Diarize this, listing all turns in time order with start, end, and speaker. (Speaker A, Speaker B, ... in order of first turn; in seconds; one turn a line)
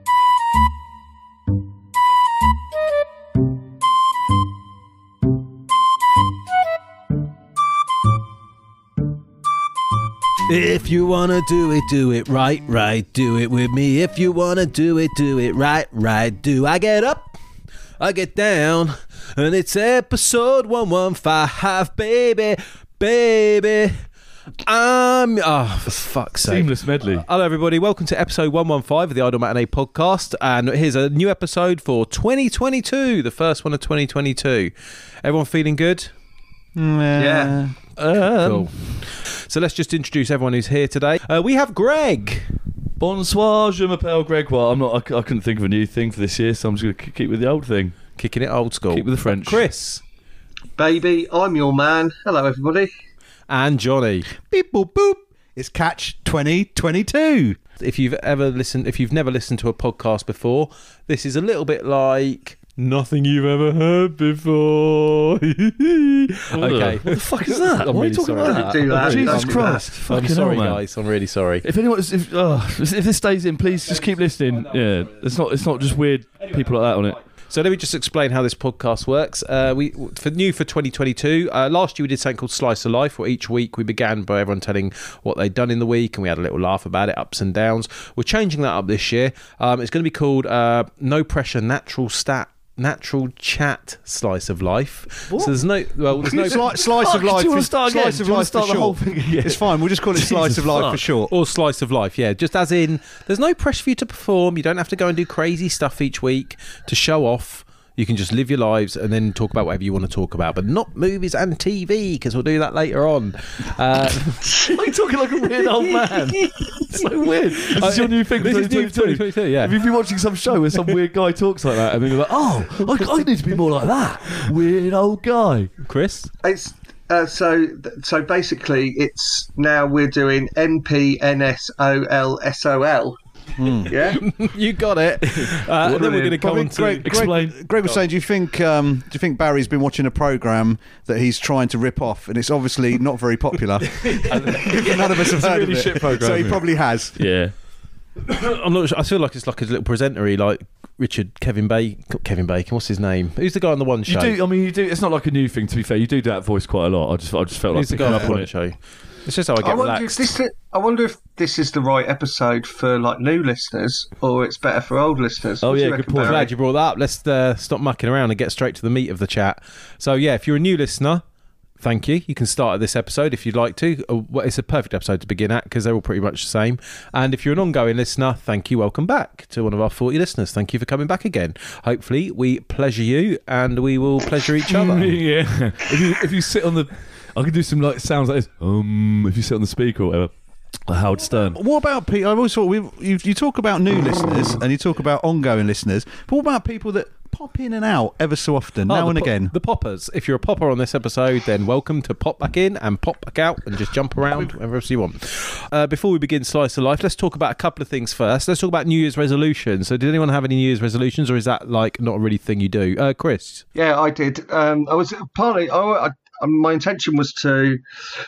Speaker A: 10.5-17.4
Speaker A: 18.0-24.1
Speaker A: 24.6-36.1
Speaker B: 26.4-27.2
Speaker C: 36.8-37.8
Speaker D: 37.2-37.6
Speaker B: 38.0-39.1
Speaker A: 38.2-42.5
Speaker B: 43.0-48.0
Speaker A: 48.2-50.0
Speaker B: 48.9-49.6
Speaker D: 50.8-52.9
Speaker A: 53.5-54.3
Speaker C: 54.4-57.6
Speaker A: 57.8-71.7
Speaker B: 66.5-70.9
Speaker D: 68.4-69.9
Speaker C: 69.0-70.0
Speaker B: 71.6-77.2
Speaker A: 73.9-75.3
Speaker A: 76.4-96.6
Speaker C: 96.2-101.3
Speaker B: 96.5-101.1
Speaker A: 101.3-114.5
Speaker D: 114.5-114.8
Speaker B: 114.7-125.7
Speaker D: 116.4-116.8
Speaker A: 117.7-119.8
Speaker A: 125.8-126.3
Speaker D: 126.4-133.2
Speaker C: 133.6-134.2
Speaker D: 133.8-134.2
Speaker A: 134.0-137.3
Speaker B: 135.2-138.1
Speaker C: 136.4-147.2
Speaker B: 144.0-147.5
Speaker A: 144.2-144.5
Speaker A: 148.3-154.4
Speaker B: 154.1-158.5
Speaker A: 157.7-160.4
Speaker C: 158.0-158.3
Speaker D: 159.6-166.5
Speaker B: 165.6-166.5
Speaker A: 166.2-171.2
Speaker A: 171.8-185.3
Speaker B: 184.7-191.6
Speaker C: 191.6-199.5
Speaker A: 198.9-213.7
Speaker D: 213.8-217.8